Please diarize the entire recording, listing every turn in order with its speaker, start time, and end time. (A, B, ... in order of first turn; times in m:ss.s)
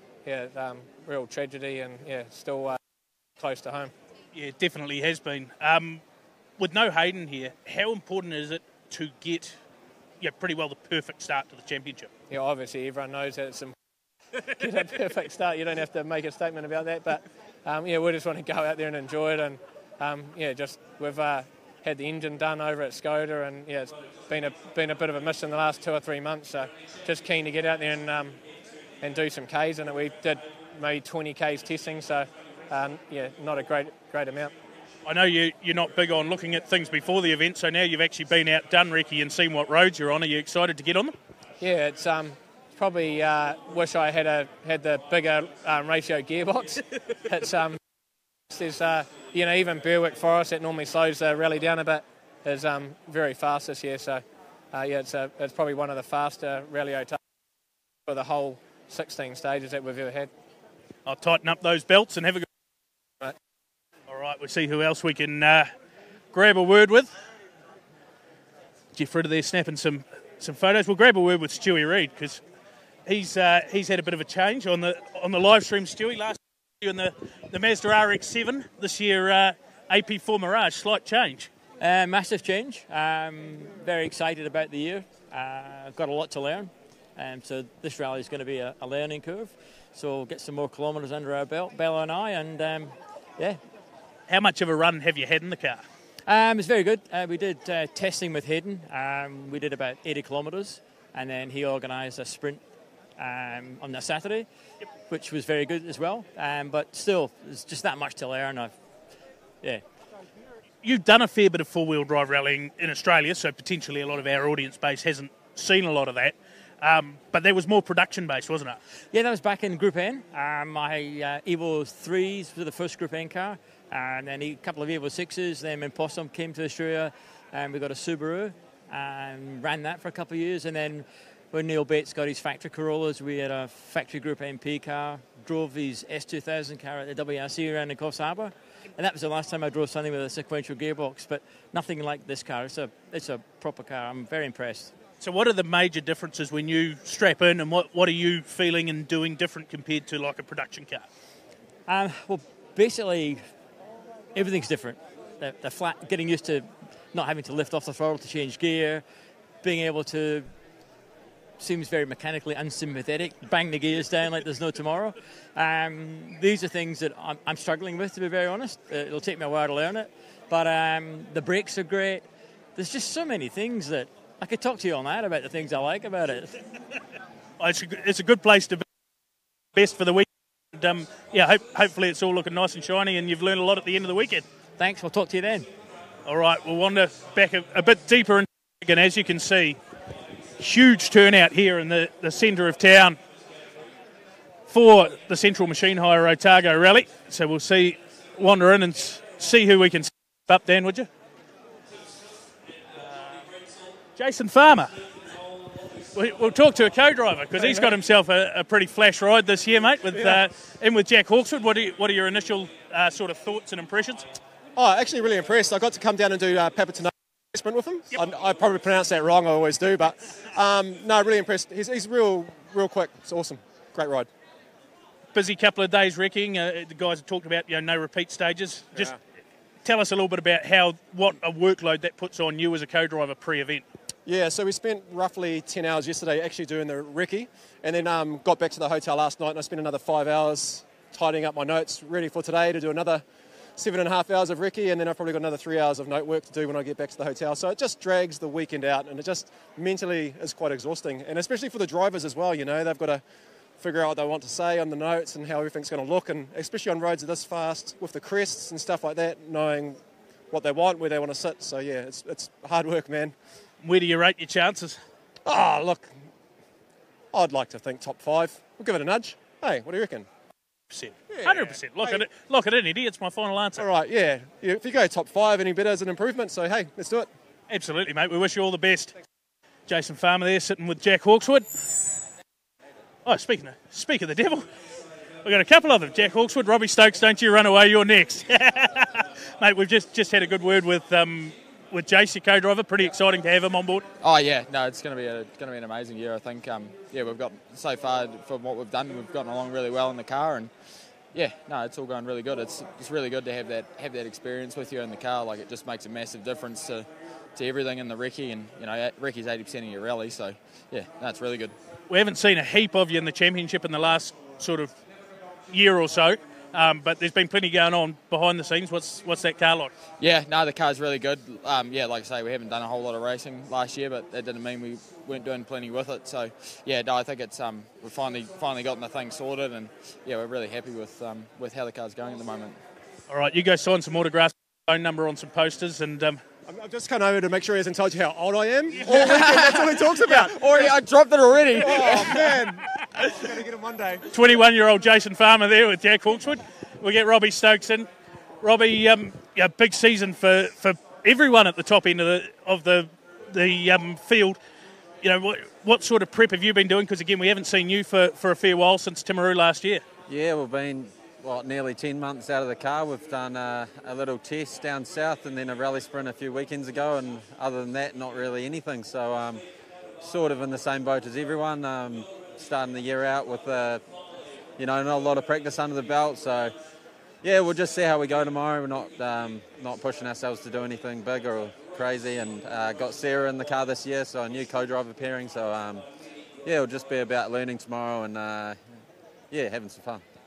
0:00.2-0:02.8 A
0:03.4-0:03.9 A
0:04.3-0:06.0 B
0:06.6-0:09.6 B
0:10.2-0:12.1 B
0:12.3-0:13.8 A
0:14.4-0:28.4 A
0:29.0-0:34.5 A
0:35.0-0:41.1 B
0:41.6-0:47.8 A
0:48.5-0:57.2 A
0:58.1-1:00.3 A
1:01.1-1:02.5 B
1:04.1-1:05.7 B
1:06.3-1:07.1 B
1:08.9-1:12.4 B
1:13.1-1:21.5 B
1:21.8-1:33.6 C
1:34.3-1:35.8 B
1:36.3-1:42.6 C
1:43.2-1:44.5 C
1:45.1-1:48.7 C
1:50.8-1:58.8 B
1:59.1-2:24.9 C
2:25.2-2:31.1 B
2:31.9-2:33.4 C
2:34.4-2:39.0 C
2:39.6-2:40.5 C
2:41.6-2:52.2 C
2:52.8-2:56.6 C
2:57.6-2:58.8 B
2:59.8-3:04.4 B
3:04.8-3:05.7 C
3:06.3-3:09.8 B
3:10.6-3:13.2 B
3:14.7-3:21.1 B
3:23.0-3:23.4 B
3:24.2-3:25.0 B
3:26.1-3:34.3 B
3:27.6-3:27.9 D
3:30.1-3:30.4 D
3:34.8-3:44.3 D
3:45.3-3:49.2 B
3:49.8-3:53.9 B
3:54.3-4:03.2 D
4:03.8-4:13.2 D
4:13.8-4:20.0 D
4:20.5-4:23.4 D
4:23.8-4:25.0 B
4:25.5-4:26.1 D
4:27.3-4:30.3 D
4:30.9-4:33.8 B
4:31.3-4:32.2 D
4:33.8-4:37.3 D
4:37.7-4:39.2 B
4:39.9-4:41.7 B
4:43.3-4:44.7 B
4:45.4-4:54.0 B
4:54.2-5:11.8 E
5:12.1-5:14.9 B
5:15.7-5:20.0 B
5:20.2-5:32.8 E
5:33.3-5:36.4 B
5:36.7-5:41.0 D
5:41.7-5:44.2 D
5:44.3-5:48.1 B
5:48.6-5:54.6 B
5:55.2-6:00.0 B
6:00.3-6:09.6 F
6:10.2-6:14.0 F
6:14.8-6:16.7 F
6:17.4-6:26.0 F
6:26.6-6:28.8 F
6:29.5-6:30.2 F